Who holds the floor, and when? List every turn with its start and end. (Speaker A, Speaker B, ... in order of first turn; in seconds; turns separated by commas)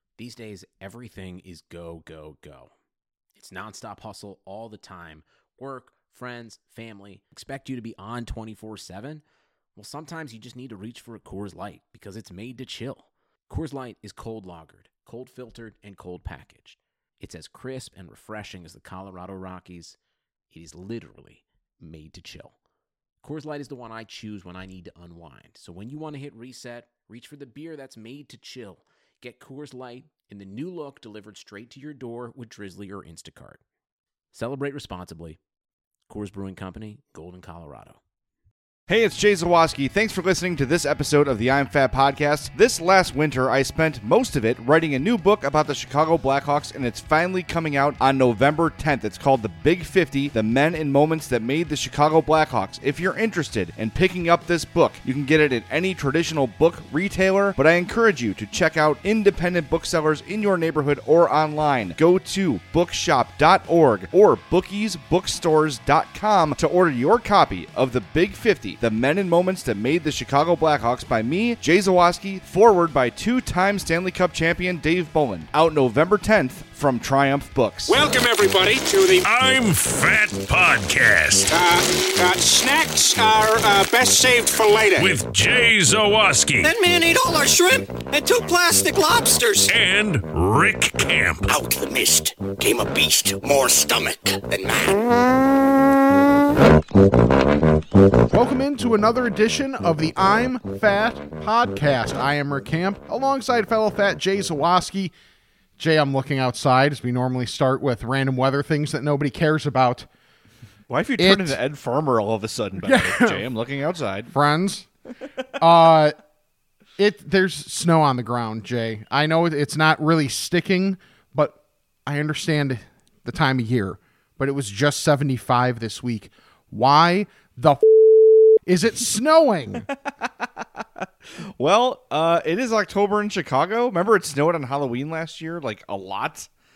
Speaker A: 0.2-2.7, Speaker A: 3.4-9.2, Speaker A: 9.8-20.0, Speaker A: 20.5-22.6, Speaker A: 23.2-33.6, Speaker A: 34.3-35.4, Speaker A: 36.1-38.0, Speaker B: 38.9-78.0, Speaker C: 77.9-79.3, Speaker D: 79.2-81.5, Speaker C: 81.5-85.2, Speaker D: 85.0-86.7, Speaker E: 86.6-89.7, Speaker D: 89.7-91.5, Speaker E: 91.5-95.0, Speaker F: 98.3-105.1, Speaker F: 105.8-110.1, Speaker B: 110.9-114.3, Speaker F: 111.2-111.6, Speaker F: 112.8-113.4, Speaker F: 114.3-114.9, Speaker F: 115.6-116.2, Speaker F: 117.0-128.0, Speaker F: 128.6-129.9, Speaker B: 131.6-136.5